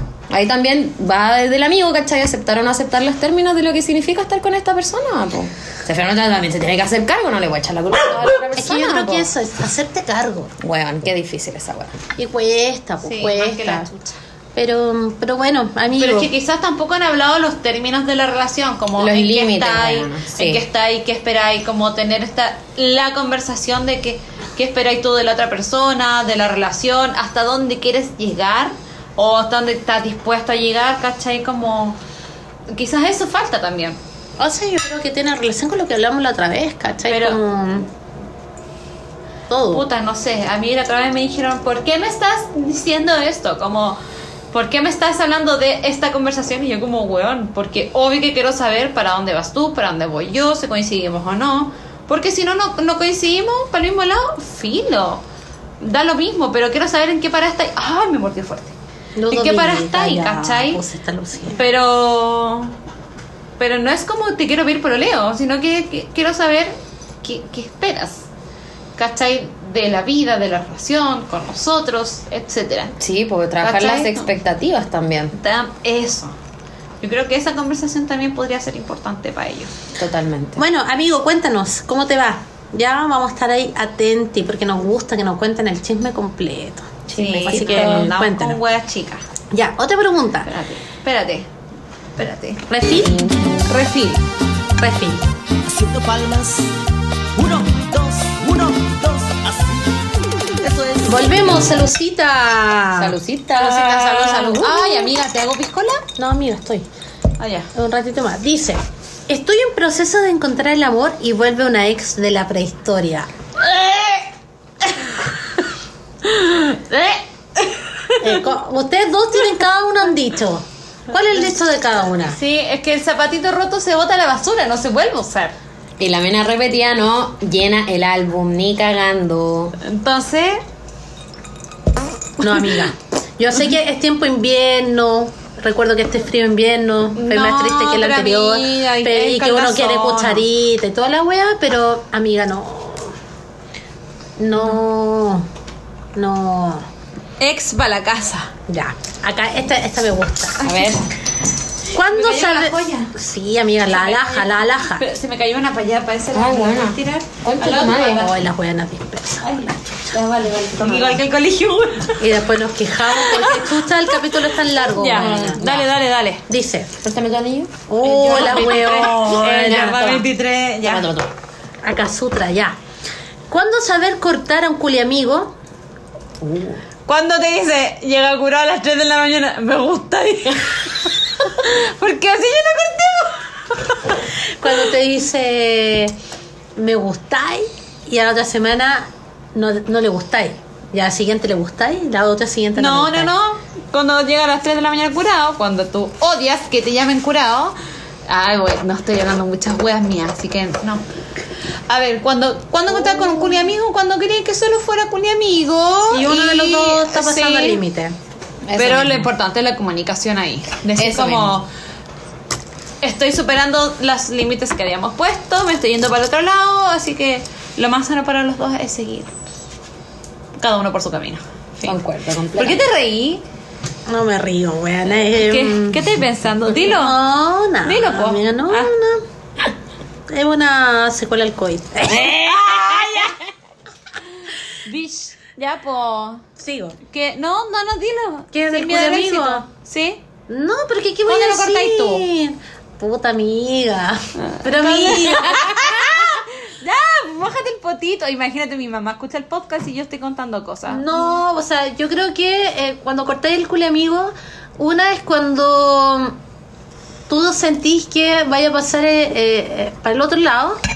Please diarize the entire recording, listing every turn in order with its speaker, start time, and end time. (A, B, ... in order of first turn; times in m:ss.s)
0:00.3-0:09.3 A
0:08.3-0:10.5 B
0:10.6-0:12.0 A
0:12.2-0:13.9 B
0:13.0-0:14.2 C
0:14.5-0:16.3 B
0:16.0-0:32.0 C
0:19.0-0:20.6 A
0:32.7-0:34.0 C
0:34.4-0:37.9 B
0:37.0-0:37.4 C
0:39.5-0:39.8 B
0:39.7-0:44.0 C
0:44.5-0:55.2 C
0:55.8-0:58.7 C
0:59.2-1:01.6 B
0:59.3-1:00.8 C
1:01.5-1:02.7 C
1:03.6-1:08.3 C
1:09.0-1:13.0 C
1:13.0-1:15.3 A
1:13.6-1:14.2 C
1:15.3-1:16.3 C
1:17.0-1:19.7 C
1:20.0-1:20.6 A
1:20.6-1:28.6 B
1:27.1-1:29.2 C
1:27.1-1:28.2 A
1:29.5-1:30.5 B
1:30.4-1:31.5 C
1:32.2-1:34.2 C
1:32.7-1:33.3 B
1:33.0-1:33.6 A
1:34.8-1:35.2 B
1:35.6-1:36.8 D
1:37.4-1:41.7 D
1:41.0-1:43.2 B
1:42.9-1:45.0 A
1:43.6-1:46.0 C
1:43.8-1:45.0 B
1:46.2-1:46.8 B
1:47.4-1:47.7 C
1:47.7-1:53.3 B
1:53.6-1:54.3 C
1:56.2-1:58.4 C
1:58.2-2:02.4 B
2:02.2-2:05.5 C
2:06.0-2:09.7 A
2:09.8-2:10.6 C
2:12.4-2:23.2 B
2:17.2-2:20.4 C
2:24.4-2:25.5 B
2:26.1-2:26.8 B
2:27.4-2:28.5 C
2:28.7-2:30.7 B
2:30.6-2:31.0 A
2:30.6-2:31.0 C
2:31.9-2:33.1 C
2:31.9-2:35.0 B
2:33.9-2:38.3 C
2:36.3-2:38.3 A
2:38.1-2:40.1 B
2:39.4-2:42.3 C
2:40.4-2:41.2 A
2:42.2-2:45.8 B
2:43.1-2:43.8 C
2:44.9-2:46.4 C
2:45.0-2:45.8 A
2:46.5-2:46.9 B
2:47.0-2:47.8 A
2:47.9-2:50.2 B
2:48.0-2:51.1 C
2:50.8-2:51.3 A
2:51.8-2:52.8 B
2:53.5-2:55.5 B
2:56.4-2:56.8 A
2:57.0-3:04.2 C
3:04.3-3:06.2 B
3:06.8-3:13.3 B
3:12.7-3:17.8 C
3:18.3-3:21.0 C
3:21.9-3:27.8 C
3:23.1-3:23.6 A
3:26.1-3:28.2 B
3:28.7-3:29.3 A
3:28.8-3:31.7 C
3:31.0-3:31.6 A
3:33.0-3:39.3 C
3:40.6-3:42.0 C
3:41.8-3:42.8 A
3:42.5-3:43.4 C
3:44.1-3:46.0 B
3:45.4-3:47.2 C
3:46.9-3:49.2 B
3:47.8-3:48.9 C
3:50.3-3:53.0 B
3:52.1-3:53.4 C
3:54.8-3:56.4 C
3:56.6-3:57.0 B
3:57.1-4:00.2 C
3:58.5-3:59.6 B
4:00.5-4:06.0 B
4:01.2-4:02.2 C
4:04.4-4:11.2 C
4:10.9-4:16.4 B
4:17.3-4:20.8 B